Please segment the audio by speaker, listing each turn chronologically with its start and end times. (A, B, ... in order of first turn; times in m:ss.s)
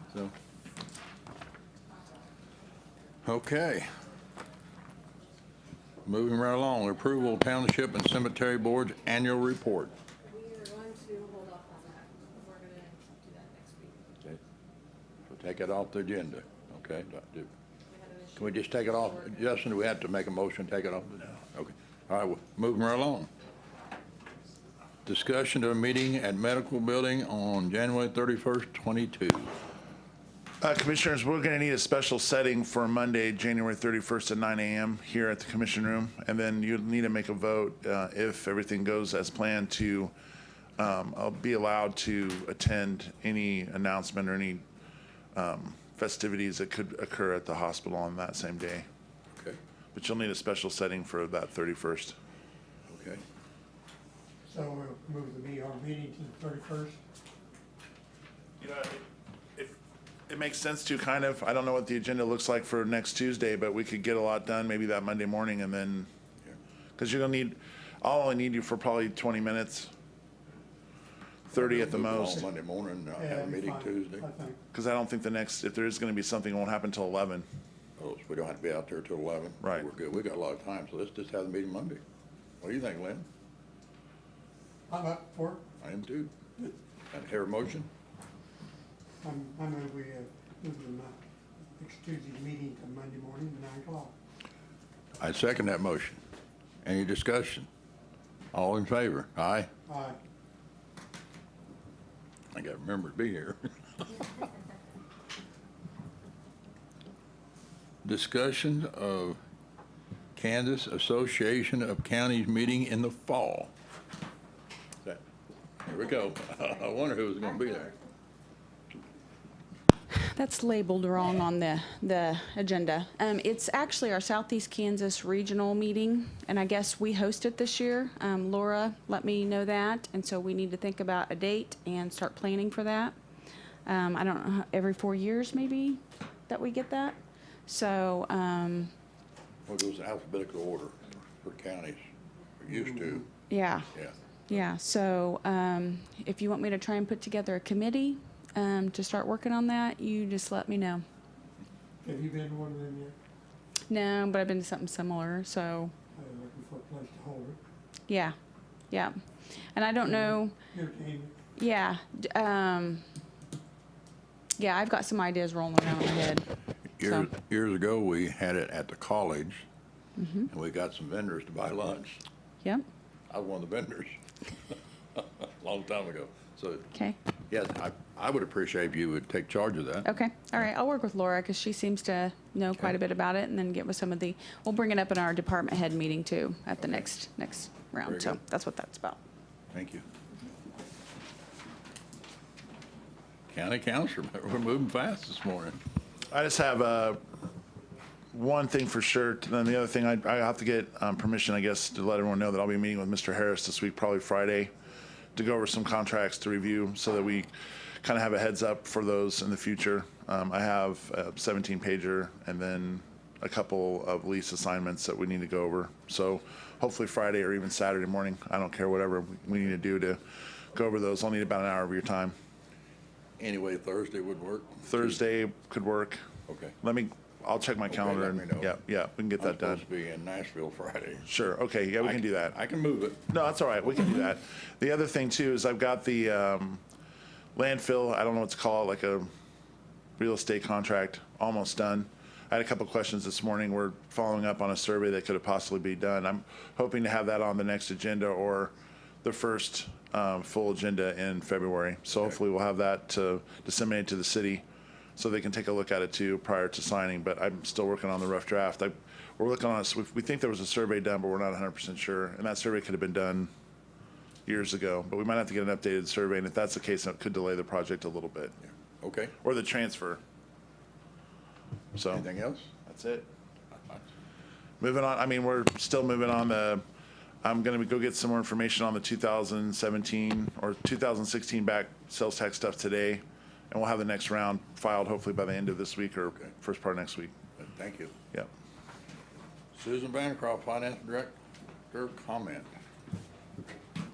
0:03.2-0:03.9 A
0:06.0-0:09.9 A
0:10.3-0:14.0 B
0:15.3-0:17.5 A
0:17.9-0:18.4 B
0:18.4-0:23.3 A
0:25.1-0:29.5 A
0:30.6-0:40.1 C
0:40.8-0:44.6 C
0:45.3-0:48.9 C
0:49.9-0:52.2 C
0:52.9-0:53.2 A
0:54.5-0:57.0 D
0:58.6-0:59.0 C
1:00.3-1:06.1 C
1:07.0-1:09.9 C
1:11.5-1:12.5 C
1:11.5-1:14.3 A
1:13.2-1:14.6 D
1:14.7-1:17.5 C
1:18.0-1:22.0 A
1:19.6-1:19.9 C
1:22.6-1:23.3 A
1:24.9-1:25.6 D
1:25.8-1:26.3 A
1:27.1-1:27.9 A
1:29.2-1:31.2 D
1:31.8-1:34.1 D
1:35.2-1:36.2 A
1:36.8-1:37.7 A
1:38.5-1:39.7 A
1:39.9-1:40.2 D
1:42.5-1:44.2 A
1:48.0-1:49.4 A
1:50.4-1:53.7 A
1:55.8-1:57.9 A
2:00.1-2:13.2 E
2:13.9-2:18.9 E
2:19.7-2:22.0 A
2:22.6-2:23.3 A
2:22.7-2:23.2 D
2:23.5-2:23.9 E
2:24.5-2:31.0 E
2:32.0-2:33.2 D
2:33.9-2:35.9 E
2:36.2-2:37.6 D
2:38.1-2:38.3 E
2:38.9-2:39.2 E
2:39.7-2:40.5 E
2:40.1-2:41.4 D
2:41.6-2:43.0 E
2:44.6-2:46.4 E
2:47.0-2:49.6 A
2:47.0-2:47.3 E
2:50.2-2:50.5 E
2:50.5-2:52.2 A
2:53.3-2:54.2 A
2:55.2-2:56.9 A
2:57.5-3:00.1 A
3:00.0-3:09.2 E
3:08.0-3:08.4 A
3:09.7-3:10.0 A
3:13.5-3:15.8 A
3:16.3-3:17.2 C
3:18.3-3:24.7 C
3:25.4-3:27.5 C
3:28.0-3:42.4 C
3:43.4-3:45.2 A
3:44.9-3:46.2 C
3:46.5-3:46.7 A
3:46.8-3:49.8 C
3:47.9-3:48.7 A
3:49.4-3:51.3 A
3:51.3-3:52.6 C
3:52.0-3:53.2 A
3:53.3-3:56.8 C
3:57.6-3:59.3 C
4:00.2-4:14.6 C
4:15.2-4:23.5 C
4:24.5-4:28.5 C
4:29.0-4:29.3 A
4:29.4-4:30.2 C
4:31.9-4:32.3 C
4:32.1-4:32.7 A
4:32.8-4:33.3 C
4:34.8-4:36.8 C
4:37.4-4:47.4 C
4:47.6-4:48.1 A
4:49.7-4:51.4 A
4:51.9-4:52.7 A